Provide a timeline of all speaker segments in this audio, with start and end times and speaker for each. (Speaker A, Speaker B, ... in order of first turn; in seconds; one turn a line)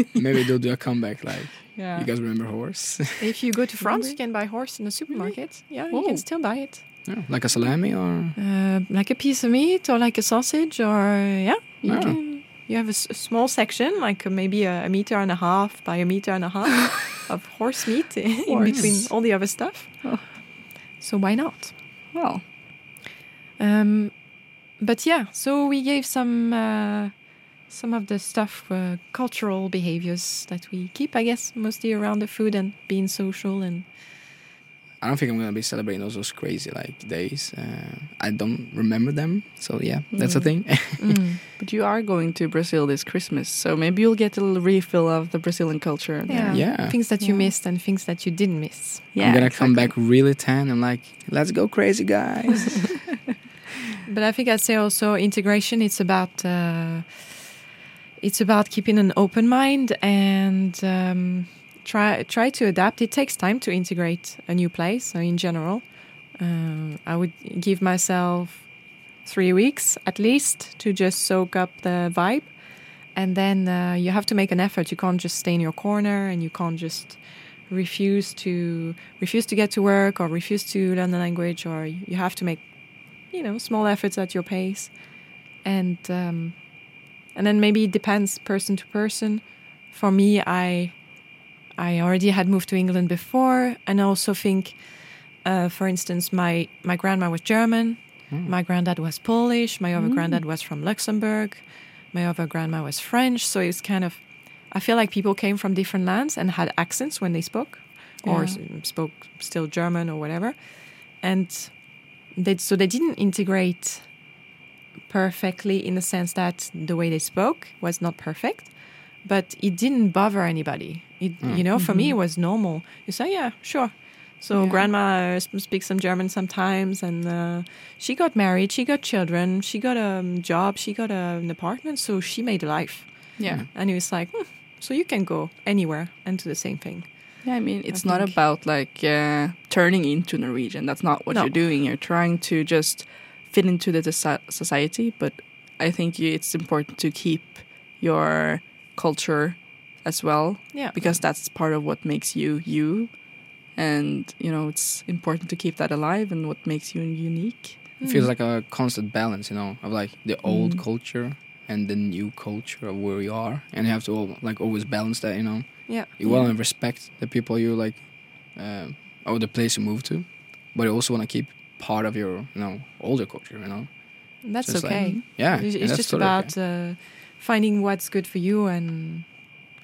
Speaker A: 0.1-3.4
Speaker B: 1.8-2.1
Speaker C: 3.2-7.5
Speaker B: 3.8-4.2
Speaker B: 5.1-6.2
Speaker A: 7.1-8.3
Speaker C: 8.3-20.4
Speaker B: 11.8-12.2
Speaker A: 11.9-12.2
Speaker B: 18.4-20.2
Speaker A: 18.6-19.0
Speaker C: 21.0-21.8
Speaker B: 22.1-22.4
Speaker C: 23.6-33.9
Speaker A: 35.0-41.2
Speaker B: 40.1-40.9
Speaker C: 41.0-41.4
Speaker B: 41.6-47.5
Speaker C: 46.3-49.1
Speaker A: 46.5-47.0
Speaker B: 49.1-49.9
Speaker A: 49.2-53.1
Speaker C: 54.0-57.5
Speaker C: 58.2-114.4
Speaker B: 100.0-100.4
Speaker B: 108.2-108.6
Speaker C: 115.1-138.4
Speaker A: 121.4-121.7
Speaker B: 121.8-122.2
Speaker B: 124.5-124.9
Speaker B: 133.4-133.7
Speaker B: 137.4-157.8
Speaker C: 158.0-158.3
Speaker A: 158.0-176.6
Speaker B: 160.4-160.8
Speaker C: 165.9-166.5
Speaker C: 174.4-179.4
Speaker B: 174.9-175.2